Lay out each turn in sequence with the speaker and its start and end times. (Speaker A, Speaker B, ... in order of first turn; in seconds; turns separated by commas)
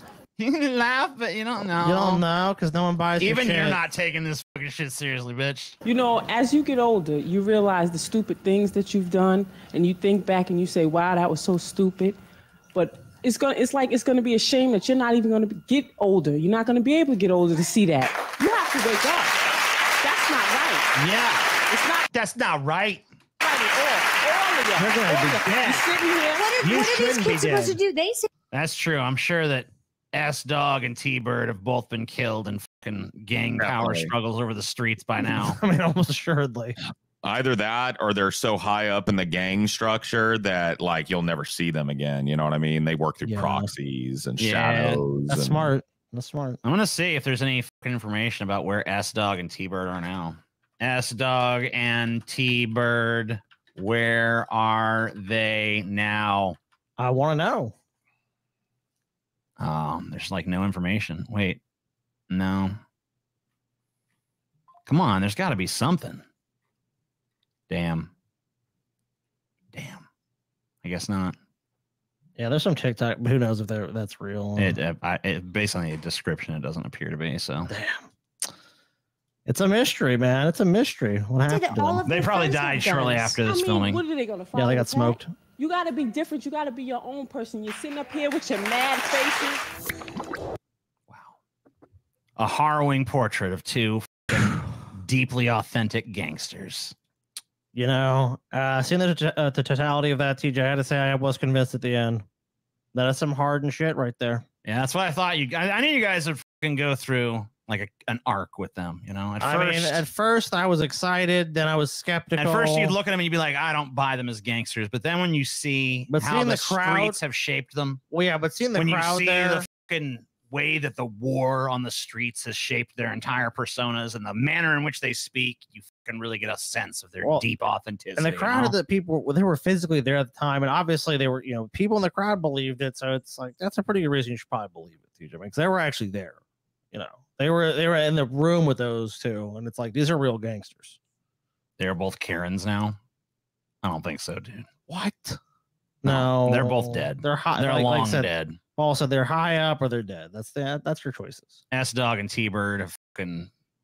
Speaker A: 0.4-2.2, Speaker B: 1.8-3.8, Speaker A: 3.2-5.8, Speaker C: 5.8-12.2, Speaker C: 12.7-19.4, Speaker C: 20.0-20.9, Speaker A: 20.9-21.4, Speaker C: 21.7-22.1, Speaker A: 22.1-23.0, Speaker C: 23.4-26.5, Speaker B: 24.8-25.4, Speaker A: 25.4-25.9, Speaker D: 26.4-28.3, Speaker B: 26.6-27.8, Speaker A: 28.5-35.6, Speaker E: 33.6-34.1, Speaker B: 35.2-36.8, Speaker E: 37.2-45.7, Speaker B: 43.2-43.7, Speaker A: 44.4-45.0, Speaker B: 45.3-46.6, Speaker A: 46.6-56.6, Speaker B: 57.0-57.7, Speaker A: 59.6-61.6, Speaker A: 62.3-62.8, Speaker A: 64.8-66.2, Speaker A: 67.7-68.1, Speaker A: 69.7-70.0, Speaker A: 70.8-71.3, Speaker B: 72.4-74.8, Speaker A: 74.6-77.7, Speaker B: 77.7-78.0, Speaker B: 79.5-82.0, Speaker D: 81.5-83.3, Speaker A: 82.1-84.0, Speaker C: 83.4-89.7, Speaker B: 84.5-85.3, Speaker A: 92.4-96.9, Speaker B: 97.7-102.2, Speaker B: 102.9-104.4, Speaker A: 104.6-110.0, Speaker B: 109.4-113.0, Speaker A: 112.3-118.0, Speaker B: 116.1-117.2, Speaker B: 118.1-119.7, Speaker A: 118.7-128.7, Speaker B: 128.2-136.4, Speaker B: 136.9-141.0, Speaker A: 141.8-143.0, Speaker A: 143.8-144.7, Speaker B: 144.9-145.4, Speaker B: 146.0-151.6, Speaker A: 146.0-148.6, Speaker A: 151.7-153.5